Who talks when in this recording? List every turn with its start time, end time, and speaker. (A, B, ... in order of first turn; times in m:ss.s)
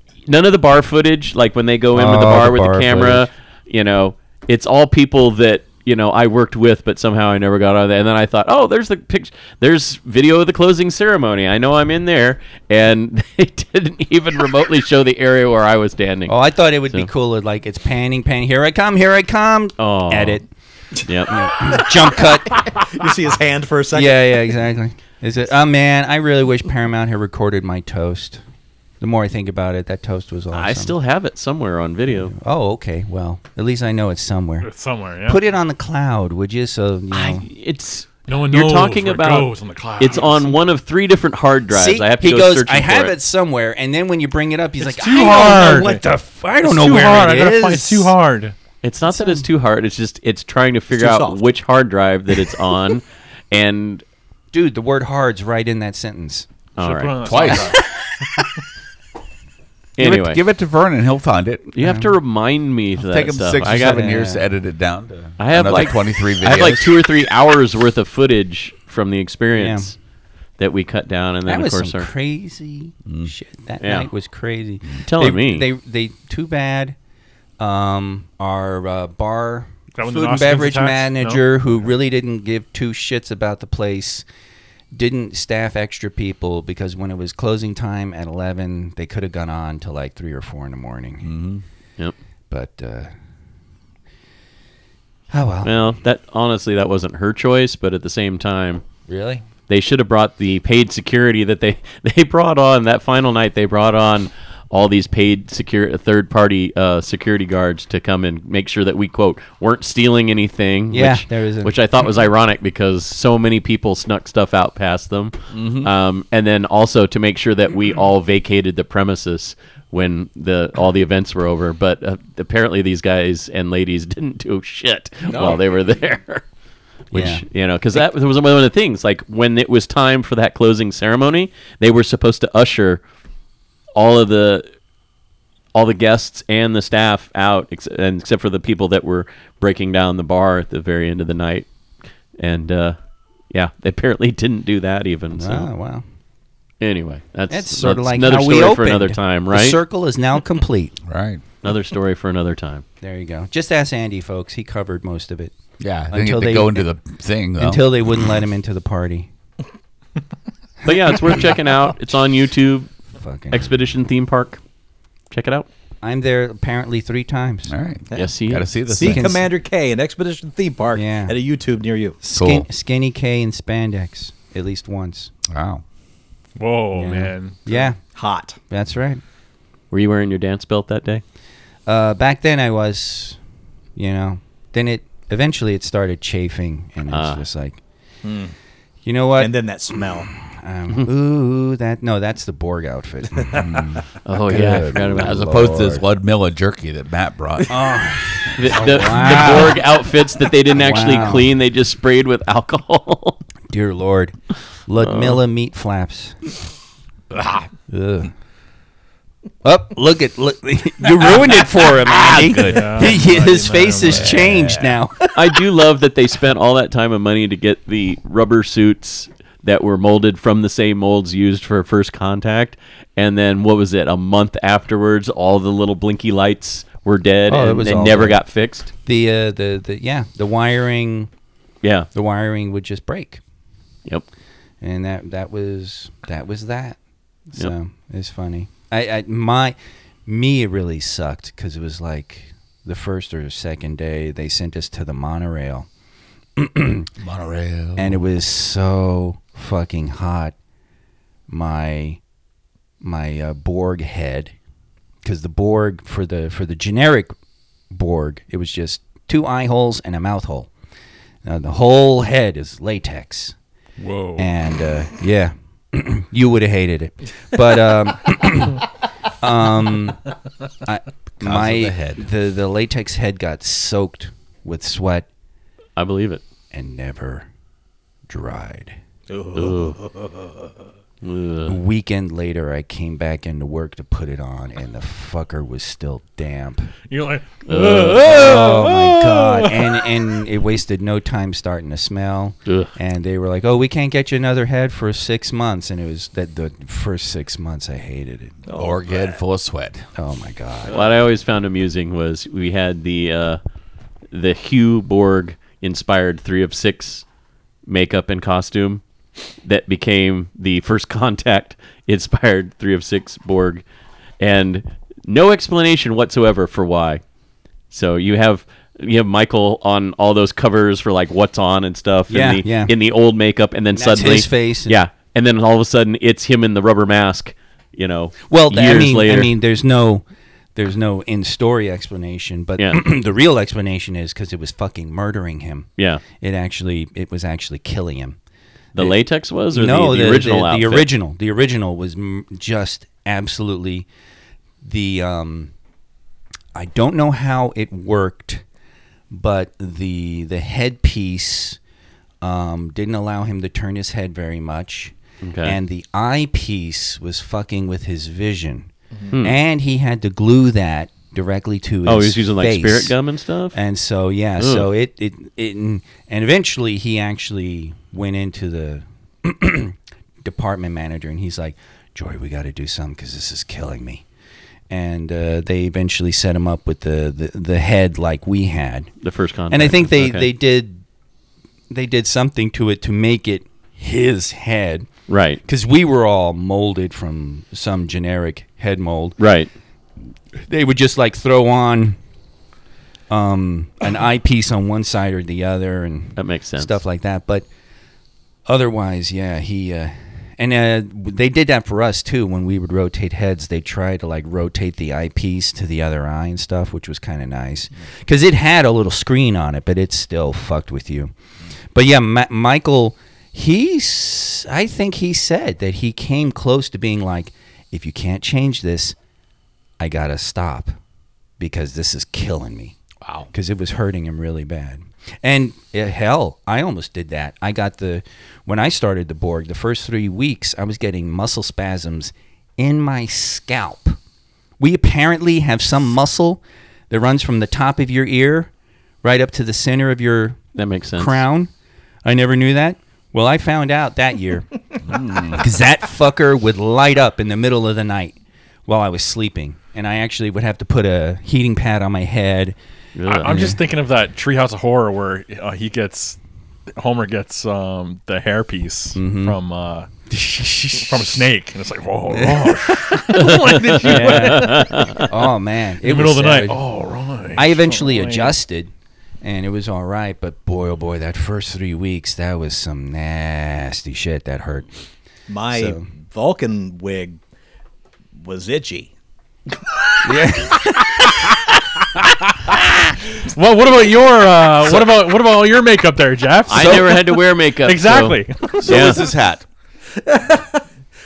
0:00.3-0:16.4 A
0:01.9-0:03.3 B
0:16.3-0:20.5 B
0:19.8-0:20.4 A
0:21.0-0:21.5 A
0:21.3-0:22.7 B
0:22.7-0:24.4 C
0:23.9-0:28.4 B
0:29.0-0:31.0 B
0:30.5-0:32.4 A
0:32.3-0:34.7 B
0:34.6-0:35.4 D
0:35.2-0:37.4 B
0:37.1-0:43.1 A
0:38.3-0:40.6 D
0:41.7-0:48.1 B
0:44.8-0:46.1 D
0:46.6-0:48.6 D
0:48.8-0:54.0 A
0:49.1-0:49.4 B
0:51.0-0:51.4 C
0:54.5-0:56.5 B
0:56.8-0:57.7 A
0:56.8-0:57.8 D
0:57.2-0:57.8 E
1:00.0-1:00.4 A
1:00.0-1:01.7 E
1:01.8-1:04.1 A
1:01.8-1:02.1 B
1:03.0-1:07.0 E
1:03.8-1:04.4 B
1:05.4-1:09.9 A
1:09.6-1:09.9 B
1:10.6-1:12.1 A
1:11.5-1:17.0 B
1:13.1-1:13.3 E
1:13.8-1:14.1 A
1:15.0-1:15.7 A
1:17.6-1:24.2 B
1:20.0-1:21.4 D
1:24.9-1:31.3 B
1:31.2-1:31.6 E
1:32.5-1:33.1 B
1:35.3-1:35.7 B
1:35.6-1:38.8 A
1:39.1-1:39.4 B
1:39.7-2:06.4 A
1:50.9-1:51.7 B
1:55.5-1:55.9 E
2:05.3-2:05.6 C
2:07.1-2:07.4 B
2:07.1-2:13.0 A
2:14.0-2:14.7 A
2:15.7-2:21.7 A
2:22.4-2:23.0 A
2:23.5-2:25.7 A
2:25.4-2:26.0 B
2:26.8-2:29.8 A
2:27.5-2:31.0 B
2:31.1-2:31.4 E
2:31.6-2:32.8 A
2:33.0-2:35.6 B
2:35.8-2:37.8 E
2:36.1-2:36.8 B
2:37.6-2:39.3 B
2:40.8-2:42.9 A
2:43.2-2:43.7 B
2:43.5-2:44.6 A
2:45.3-2:45.7 A
2:46.0-2:47.7 B
2:47.7-2:49.3 E
2:48.1-2:48.7 A
2:48.9-2:52.2 C
2:49.0-2:49.4 B
2:51.0-2:51.4 B
2:52.2-2:55.3 B
2:52.3-2:52.7 E
2:55.5-2:55.8 E
2:56.6-2:57.9 D
2:56.9-2:58.0 B
2:58.1-2:58.6 C
2:58.7-2:59.2 B
2:59.9-3:01.2 A
3:01.9-3:03.4 B
3:04.0-3:07.8 B
3:07.1-3:07.4 A
3:08.2-3:08.5 C
3:09.0-3:16.0 B
3:09.4-3:10.3 C
3:13.5-3:14.0 E
3:14.3-3:15.5 A
3:15.0-3:17.9 E
3:17.7-3:19.8 B
3:18.6-3:23.4 A
3:18.7-3:19.6 E
3:20.7-3:21.5 B
3:23.7-3:24.4 B
3:24.9-3:26.4 B
3:25.0-3:25.4 A
3:27.9-3:28.3 B
3:29.6-3:35.4 B
3:32.1-3:33.2 E
3:32.6-3:34.7 D
3:34.1-3:35.0 E
3:35.4-3:48.9 A
3:47.5-3:48.4 B
3:49.1-3:51.3 B
3:51.8-3:52.1 A
3:52.2-3:53.4 B
3:54.8-3:57.0 B
3:57.5-4:05.9 B
4:06.6-4:07.1 B
4:07.2-4:08.2 E
4:08.0-4:10.6 B
4:11.5-4:12.2 B
4:13.0-4:14.5 B
4:15.2-4:17.4 B
4:17.9-4:20.7 B
4:21.4-4:23.6 B
4:24.0-4:24.5 D
4:24.4-4:28.9 B
4:29.4-4:30.2 B
4:30.9-4:35.3 B
4:31.4-4:32.2 E
4:36.0-4:36.4 A
4:36.7-4:37.5 B
4:38.3-4:39.0 B
4:39.3-4:40.5 C
4:39.6-4:40.0 A
4:41.2-4:41.8 A
4:41.7-4:46.9 B
4:47.1-4:50.3 D
4:47.7-4:48.4 A
4:48.2-4:58.6 B
4:58.7-4:59.4 C
4:58.7-5:00.1 E
5:00.2-5:01.0 B
5:00.9-5:03.6 A
5:04.3-5:07.2 A
5:07.9-5:09.0 A
5:09.6-5:13.8 A
5:14.4-5:17.2 A
5:17.9-5:29.5 A
5:22.3-5:22.9 B
5:24.0-5:25.0 B
5:28.5-5:30.2 B
5:30.8-5:38.4 B
5:36.0-5:36.2 A
5:39.0-5:41.1 A
5:39.7-5:44.1 B
5:44.8-5:45.7 B
5:46.8-5:48.6 B
5:49.3-5:51.8 B
5:52.4-5:58.9 B
5:55.4-5:55.8 A
5:59.4-6:03.2 B
6:02.1-6:03.8 A
6:03.7-6:14.2 B
6:04.6-6:04.9 A
6:14.9-6:19.1 B
6:19.2-6:20.5 A
6:19.7-6:21.0 B
6:21.9-6:25.1 B
6:25.3-6:25.6 A
6:25.6-6:29.4 B
6:29.4-6:29.7 A
6:30.7-6:32.2 B
6:33.3-6:37.6 B
6:36.4-6:37.0 A
6:38.7-6:51.3 B
6:51.9-6:59.2 B
7:00.0-7:01.0 B
7:01.6-7:03.0 B
7:03.5-7:14.2 B
7:14.8-7:18.7 B
7:19.2-7:20.6 B
7:20.8-7:21.4 A
7:21.2-7:21.7 B
7:22.2-7:24.7 B
7:25.1-7:25.6 E
7:25.5-7:28.4 B
7:28.9-7:32.8 B
7:33.2-7:33.7 A
7:33.3-7:36.4 D
7:33.4-7:33.8 B
7:37.0-7:40.1 D
7:39.2-7:39.6 B
7:40.3-7:41.4 B
7:41.0-7:45.4 D
7:42.3-7:43.2 B
7:43.3-7:45.2 A
7:44.0-7:46.8 B
7:46.0-7:48.6 D
7:47.6-7:48.9 B
7:49.4-7:54.9 B
7:55.5-7:57.4 C
7:55.7-7:56.1 B
7:58.4-7:59.1 C
8:00.2-8:01.4 B
8:03.4-8:08.9 D
8:06.7-8:09.2 A
8:08.8-8:09.6 E
8:10.2-8:10.8 C